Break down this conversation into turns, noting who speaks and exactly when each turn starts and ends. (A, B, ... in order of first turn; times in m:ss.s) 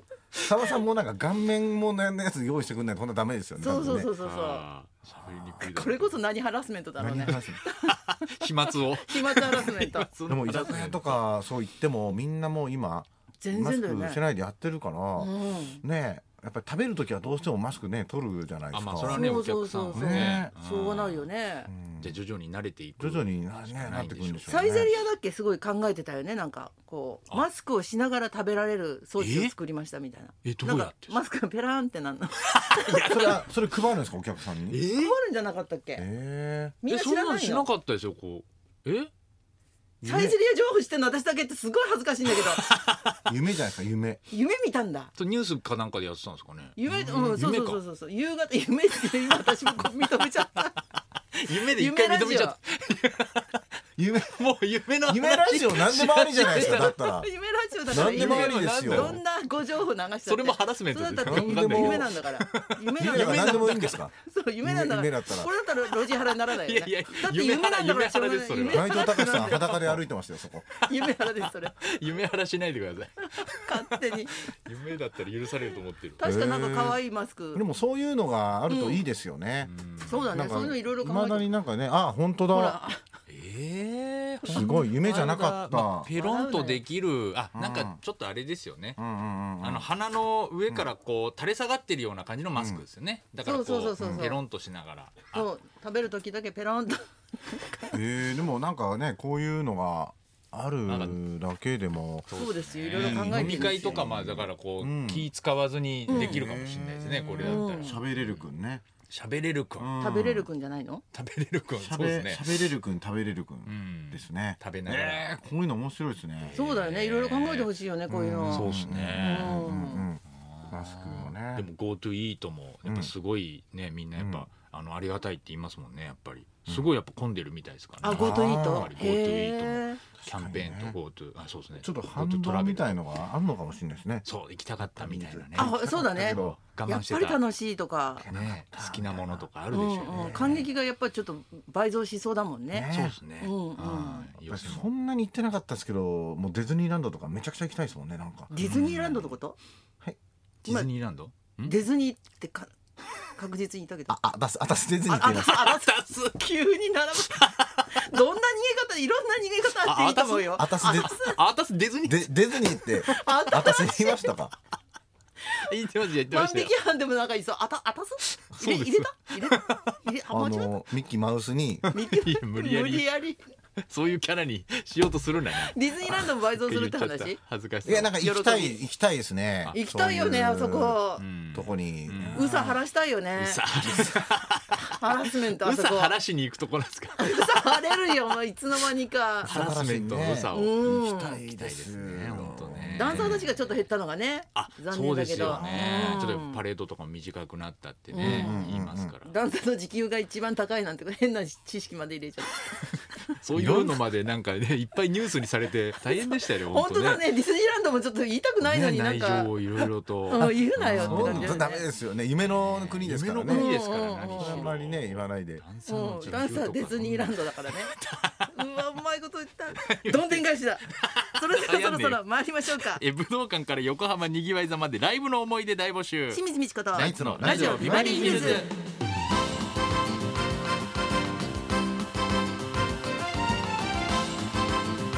0:00.4-0:04.1 A
0:03.6-0:04.6 B
0:04.2-0:06.1 C
0:05.6-0:10.1 B
0:07.0-0:07.6 A
0:07.2-0:11.2 C
0:10.3-0:19.3 A
0:13.4-0:14.2 B
0:15.2-0:15.8 B
0:18.7-0:21.3 C
0:19.1-0:21.7 B
0:19.9-0:20.5 A
0:21.7-0:22.2 A
0:22.0-0:24.8 C
0:23.0-0:24.9 A
0:24.4-0:33.4 B
0:29.2-0:29.5 C
0:30.4-0:31.2 C
0:32.5-0:33.5 C
0:33.0-0:34.8 A
0:34.7-0:35.1 C
0:34.9-0:36.0 B
0:36.0-0:36.8 A
0:36.8-0:37.7 B
0:36.9-0:39.1 C
0:40.0-0:40.4 A
0:40.0-0:42.6 B
0:42.3-0:43.2 C
0:43.2-0:44.2 A
0:44.3-0:45.1 B
0:45.2-0:47.8 C
0:46.8-0:50.8 B
0:46.9-0:47.4 A
0:49.8-0:50.3 C
0:51.4-0:53.6 C
0:51.5-0:52.6 B
0:54.0-0:54.4 A
0:54.3-0:57.0 C
0:55.0-0:57.3 A
0:56.4-1:09.8 B
0:57.9-0:59.2 A
0:57.9-0:59.2 C
1:00.2-1:04.0 C
1:01.2-1:02.1 A
1:03.0-1:05.5 A
1:05.9-1:10.0 C
1:08.7-1:10.7 A
1:10.7-1:16.2 C
1:10.8-1:11.8 B
1:13.6-1:14.5 B
1:16.2-1:17.6 B
1:16.2-1:17.0 A
1:17.5-1:22.8 A
1:18.7-1:19.0 B
1:19.6-1:20.3 C
1:20.0-1:21.5 B
1:22.5-1:23.0 B
1:23.3-1:29.0 C
1:24.4-1:25.3 B
1:24.5-1:26.1 A
1:26.1-1:26.8 B
1:27.5-1:28.0 A
1:29.0-1:29.9 A
1:29.6-1:35.5 C
1:32.5-1:32.8 A
1:33.4-1:34.4 B
1:34.0-1:34.3 A
1:35.3-1:38.0 B
1:37.9-1:42.3 A
1:40.8-1:41.2 C
1:42.3-1:48.5 C
1:42.3-1:44.0 B
1:42.9-1:45.3 A
1:46.1-1:48.8 A
1:46.1-1:46.4 B
1:47.4-1:48.0 B
1:49.1-1:49.9 C
1:49.8-1:50.5 A
1:50.0-1:51.0 B
1:51.1-1:52.7 C
1:51.8-1:56.7 A
1:53.6-1:55.3 C
1:56.4-1:57.7 C
1:56.5-2:00.0 B
1:58.1-2:01.7 A
1:58.5-1:59.8 C
2:00.3-2:13.0 C
2:02.8-2:03.1 A
2:04.2-2:04.4 A
2:08.0-2:09.0 A
2:08.0-2:10.0 B
2:10.2-2:11.0 A
2:11.8-2:14.2 A
2:14.2-2:17.4 C
2:14.8-2:16.6 A
2:15.6-2:18.2 B
2:18.2-2:19.4 A
2:18.3-2:20.6 C
2:19.7-2:24.3 B
2:20.1-2:20.7 A
2:22.7-2:23.2 A
2:22.9-2:24.9 C
2:24.5-2:28.5 A
2:28.5-2:29.6 B
2:28.6-2:29.4 C
2:30.6-2:31.8 C
2:31.6-2:32.7 B
2:33.2-2:34.2 B
2:34.1-2:35.6 A
2:35.1-2:41.4 B
2:35.2-2:36.4 C
2:37.2-2:38.0 C
2:39.8-2:43.2 C
2:40.5-2:41.2 A
2:42.0-2:44.5 A
2:43.0-2:44.3 B
2:45.5-2:46.7 C
2:46.3-2:50.8 B
2:48.4-2:50.0 C
2:50.3-2:51.9 A
2:51.8-2:53.1 C
2:51.9-2:53.4 B
2:53.9-2:58.1 C
2:55.6-2:57.4 B
2:57.8-3:01.0 A
2:58.1-2:58.8 B
2:59.7-3:01.2 B
3:01.2-3:02.5 C
3:01.5-3:02.8 A
3:02.3-3:03.6 B
3:03.4-3:08.0 C
3:04.9-3:06.2 B
3:07.2-3:09.6 B
3:09.4-3:13.4 A
3:09.4-3:13.5 C
3:10.5-3:11.4 B
3:12.9-3:16.6 B
3:14.5-3:19.3 C
3:15.4-3:16.0 A
3:18.1-3:18.6 B
3:18.2-3:19.1 A
3:19.2-3:22.7 B
3:23.4-3:27.2 C
3:23.6-3:23.9 B
3:26.6-3:29.5 B
3:28.6-3:31.6 C
3:30.3-3:31.8 B
3:30.8-3:33.7 A
3:32.4-3:38.5 C
3:33.5-3:34.7 B
3:34.4-3:35.6 A
3:35.8-3:37.9 B
3:38.5-3:43.0 B
3:39.7-3:42.2 C
3:42.7-3:46.4 C
3:46.3-3:48.7 B
3:46.9-3:48.6 A
3:46.9-3:48.7 C